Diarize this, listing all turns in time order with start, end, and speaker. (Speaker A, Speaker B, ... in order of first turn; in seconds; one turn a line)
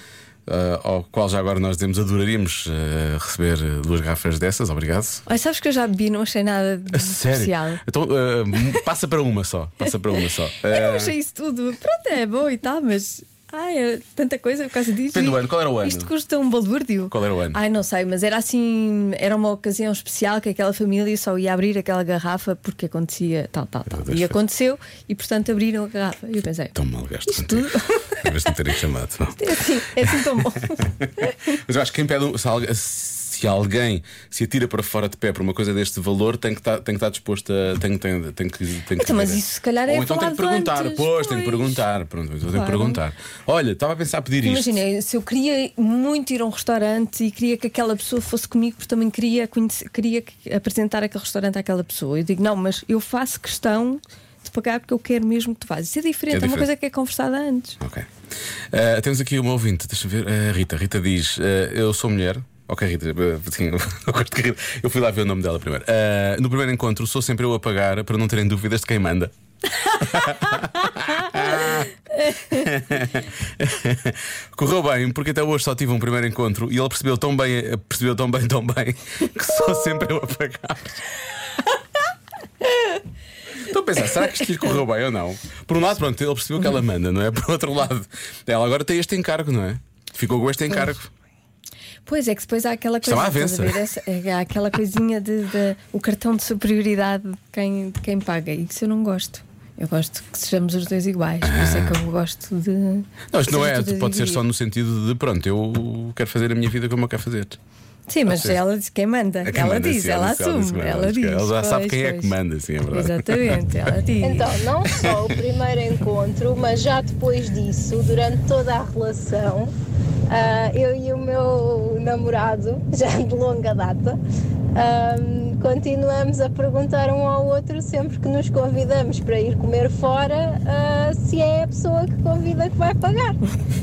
Speaker A: 0.5-5.2
Speaker B: 5.2-7.8
Speaker A: 6.9-11.2
Speaker B: 10.7-26.8
Speaker A: 15.1-16.1
Speaker A: 17.1-17.6
Speaker A: 23.9-24.4
Speaker A: 26.8-29.4
Speaker B: 27.3-28.3
Speaker B: 29.4-31.4
Speaker A: 31.5-44.8
Speaker B: 39.0-41.8
Speaker B: 42.5-43.0
Speaker B: 44.4-57.8
Speaker A: 56.3-56.7
Speaker A: 57.8-58.1
Speaker A: 58.7-69.3
Speaker A: 70.0-71.9
Speaker A: 72.5-81.0
Speaker A: 83.6-91.1
Speaker B: 92.1-104.4
Speaker A: 93.0-93.8
Speaker A: 101.4-102.0
Speaker A: 103.3-107.6
Speaker B: 108.1-112.3
Speaker A: 108.3-108.6
Speaker A: 109.5-113.7
Speaker B: 112.9-114.5
Speaker C: 114.2-119.7
Speaker C: 120.3-124.2
Speaker C: 124.8-133.4